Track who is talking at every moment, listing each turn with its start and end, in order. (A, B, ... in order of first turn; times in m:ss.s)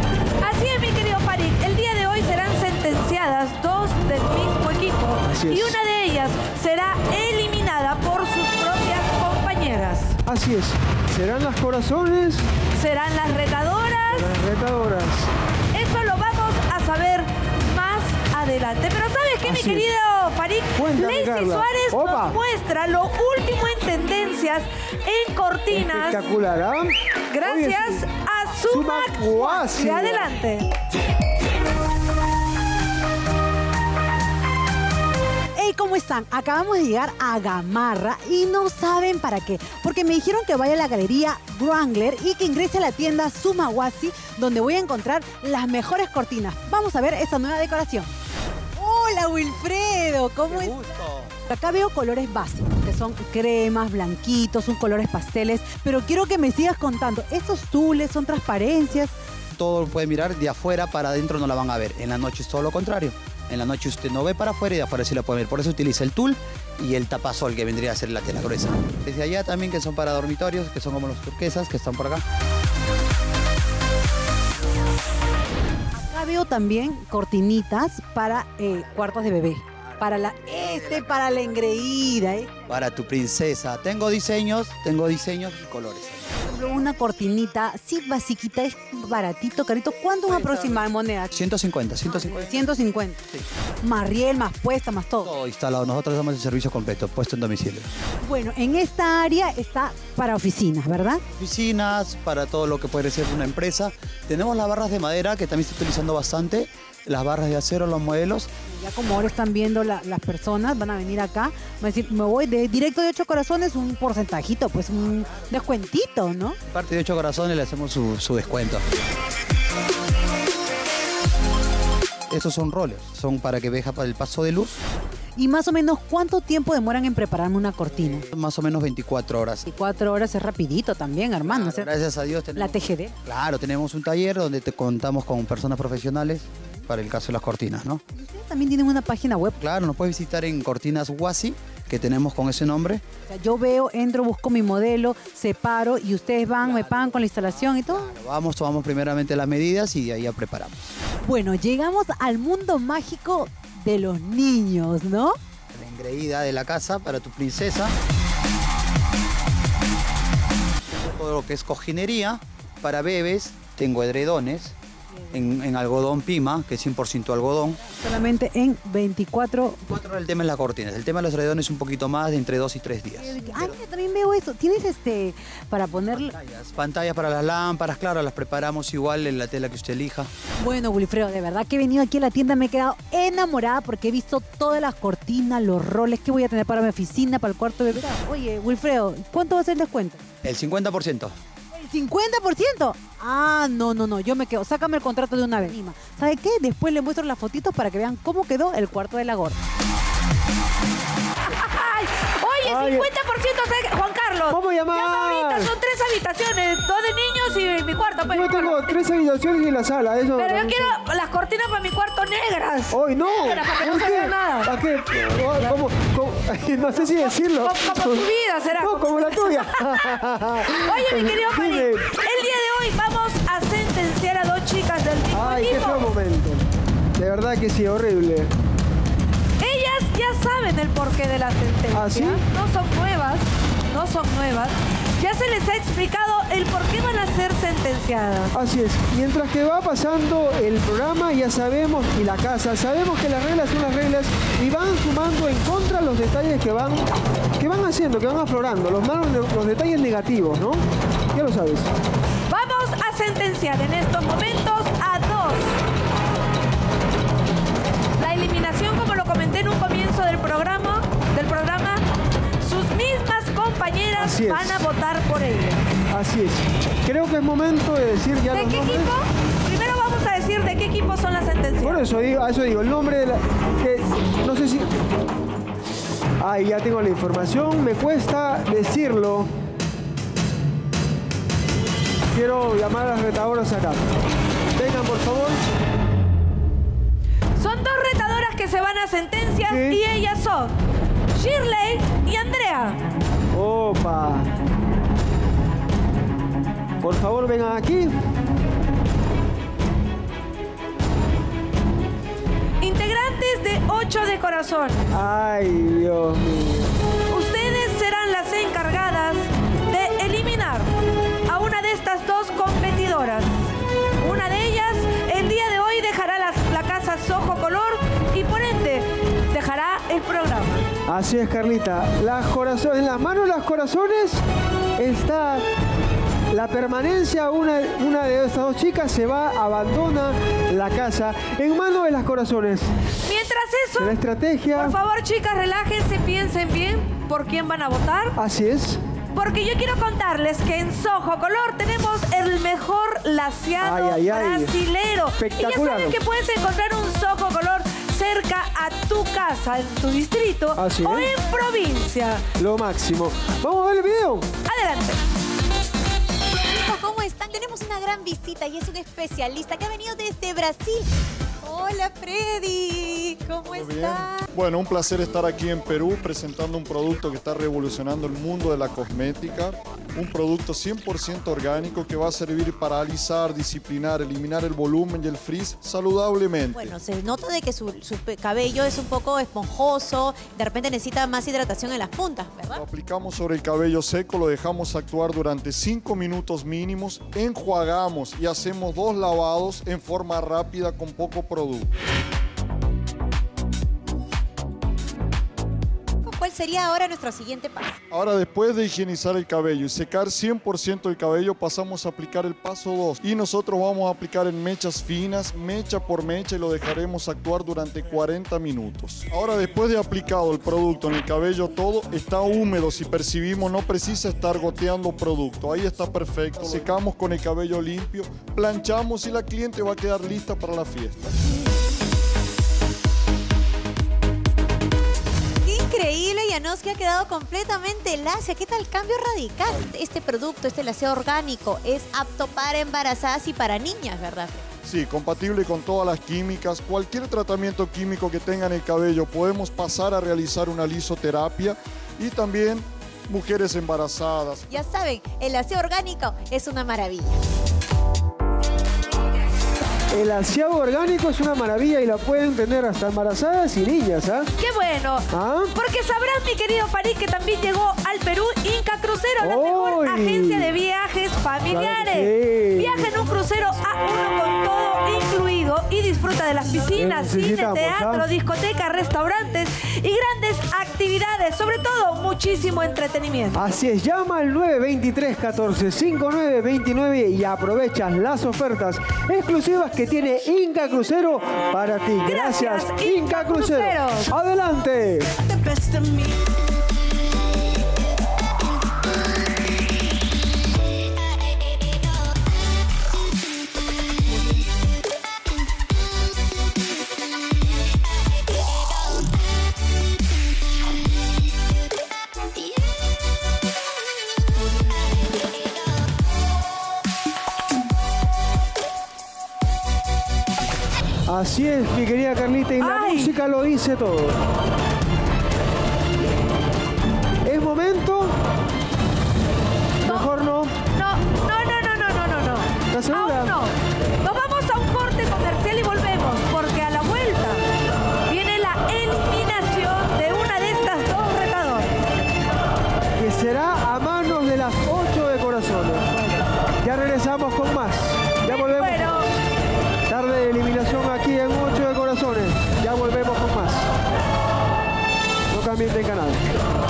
0:00.4-0:10.2 A
0:05.2-0:05.8 B
0:10.3-0:12.4 B
0:12.8-0:14.4 A
0:14.1-0:15.3 B
0:15.7-0:26.3 A
0:19.4-0:19.9 B
0:20.8-0:22.4 B
0:25.7-0:28.1 B
0:27.3-0:30.7 A
0:28.7-0:30.3 B
0:35.6-0:48.1 C
0:48.8-0:50.8 C
0:50.5-0:51.3 D
0:51.5-0:59.1 C
0:59.6-1:12.2 D
1:16.0-1:22.5 C
1:18.7-1:19.2 D
1:19.8-1:21.9 D
1:22.7-1:26.9 D
1:26.5-1:31.3 C
1:30.2-1:33.5 D
1:32.1-1:33.2 C
1:33.8-1:35.3 C
1:35.2-1:37.9 D
1:38.2-1:41.2 C
1:41.3-1:48.5 D
1:48.7-1:56.6 C
1:56.7-1:58.8 D
2:02.3-2:04.8 D
2:05.4-2:08.2 C
2:08.2-2:09.7 D
2:09.7-2:11.9 C
2:11.4-2:18.0 D
2:12.6-2:13.2 C
2:18.1-2:19.6 C
2:19.6-2:23.0 D
2:23.3-2:28.1 C
2:26.6-2:31.0 D
2:31.2-2:35.4 C
2:35.7-2:38.0 D
2:40.8-2:44.8 D
2:45.3-2:47.8 D
2:47.9-2:49.8 C
2:49.9-2:53.8 D
2:53.2-2:56.4 C
2:56.1-3:00.3 D
3:00.6-3:10.2 C
3:10.4-3:11.4 D
3:11.7-3:19.6 C
3:21.4-3:28.9 A
3:22.6-3:23.1 B
3:24.5-3:25.7 B
3:28.3-3:30.9 B
3:30.4-3:34.8 A
3:32.9-3:42.1 B
3:36.9-3:46.1 A
3:45.3-3:48.5 B
3:49.6-3:58.5 A
3:51.9-3:52.4 B
3:58.5-4:11.9 B
4:12.5-4:15.8 A
4:18.2-4:22.0 A
4:22.6-4:25.9 A
4:24.2-4:24.9 B
4:26.1-4:29.1 B
4:28.5-4:32.1 A
4:31.8-4:35.0 B
4:36.4-4:39.5 B
4:42.3-4:44.1 B
4:44.7-4:45.6 B
4:47.6-4:50.7 A
4:49.7-4:50.0 B
4:51.4-4:53.0 A
4:53.5-4:54.5 B
4:57.0-4:58.1 B
5:02.8-5:05.1 A
5:05.1-5:06.9 B
5:07.3-5:10.9 A
5:11.5-5:13.5 A
5:14.2-5:20.9 A
5:21.1-5:24.4 B
5:25.0-5:25.6 B
5:26.5-5:32.9 B
5:33.2-5:34.2 A
5:34.0-5:35.0 B
5:34.8-5:38.4 A
5:38.4-5:39.0 B
5:39.3-5:52.4 A
5:43.8-5:44.8 B
5:45.4-5:46.2 B
5:50.8-5:51.3 B
5:52.6-5:54.5 B
5:54.6-5:55.2 A
5:56.6-6:01.1 E
6:01.6-6:04.5 E
6:03.6-6:16.9 F
6:16.7-6:22.8 E
6:22.7-6:31.9 F
6:36.2-6:38.0 E
6:38.1-7:01.2 F
7:05.6-7:14.7 E
7:14.8-7:24.7 F
7:24.7-7:27.4 E
7:30.1-7:34.5 B
7:34.6-7:53.6 A
7:35.3-7:35.7 B
7:39.4-7:40.7 B
7:41.7-7:43.1 B
7:47.0-7:48.3 B
7:53.5-8:05.3 B
8:02.2-8:04.3 A
8:05.4-8:06.3 A
8:31.3-8:34.4 B
8:32.8-8:33.4 A
8:37.4-8:38.4 B
8:40.0-8:40.3 A
8:40.0-8:40.7 B
8:40.9-8:47.6 A
8:42.9-8:43.6 B
8:48.3-8:51.9 A
8:53.2-8:56.2 B
8:56.8-8:59.3 B
8:58.4-8:59.3 A
9:00.1-9:03.9 B
9:05.5-9:06.4 B